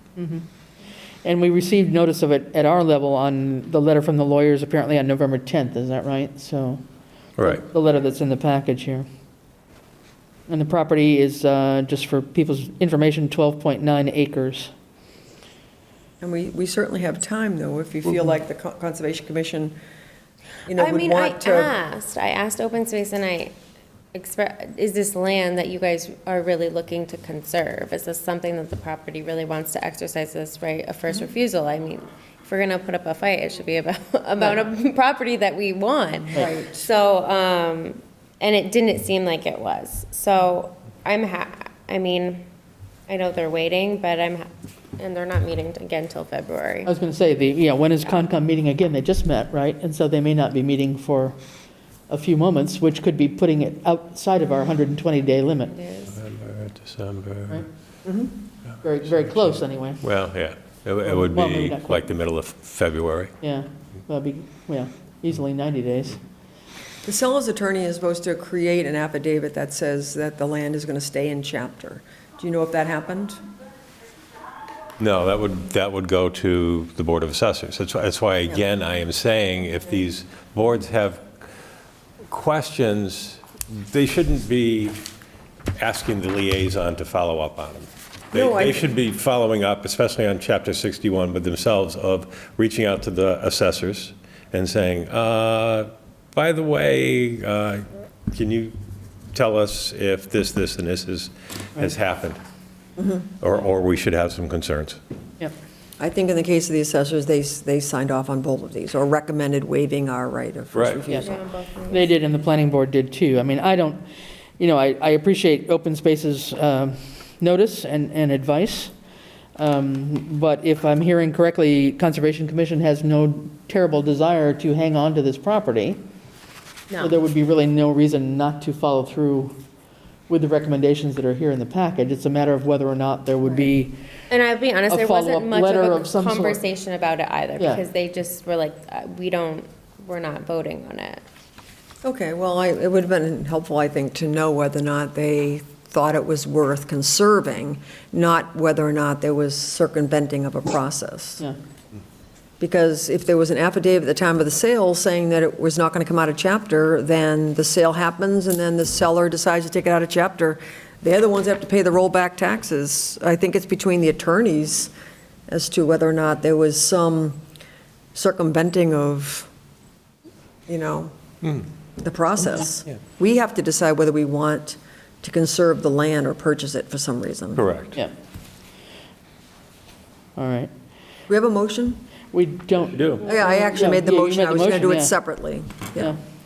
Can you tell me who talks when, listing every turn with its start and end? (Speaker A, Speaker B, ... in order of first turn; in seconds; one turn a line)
Speaker A: 0.2-0.5
Speaker A: 1.2-6.8
Speaker B: 7.4-7.6
Speaker A: 7.4-9.1
Speaker A: 10.5-14.7
Speaker C: 16.2-19.8
Speaker C: 20.7-21.7
Speaker D: 20.8-23.5
Speaker D: 24.1-42.5
Speaker C: 36.3-36.9
Speaker D: 43.1-46.9
Speaker A: 46.9-51.4
Speaker A: 52.1-55.8
Speaker D: 55.7-56.2
Speaker B: 56.1-57.6
Speaker C: 58.1-58.3
Speaker A: 58.8-60.0
Speaker B: 60.0-63.3
Speaker A: 61.0-62.1
Speaker A: 63.4-66.2
Speaker C: 67.0-73.4
Speaker B: 75.0-81.2
Speaker B: 82.3-85.0
Speaker B: 85.8-98.8
Speaker C: 88.3-88.9
Speaker B: 99.3-102.4
Speaker B: 103.4-105.0
Speaker C: 106.0-111.3
Speaker B: 110.7-111.0
Speaker D: 111.2-112.1
Speaker A: 111.9-114.0
Speaker A: 114.6-118.9
Speaker A: 119.6-126.0
Speaker D: 126.9-127.2
Speaker A: 127.0-129.6
Speaker A: 130.3-134.0
Speaker D: 134.3-141.2
Speaker A: 134.9-136.6
Speaker C: 142.0-151.4
Speaker C: 152.6-164.9
Speaker C: 165.5-167.4
Speaker C: 168.2-169.5
Speaker C: 170.7-171.1
Speaker C: 172.0-177.7
Speaker B: 177.6-178.0
Speaker A: 180.4-180.7
Speaker C: 181.3-182.0
Speaker A: 182.3-185.1
Speaker B: 182.9-183.3
Speaker D: 183.2-183.5
Speaker C: 183.2-186.1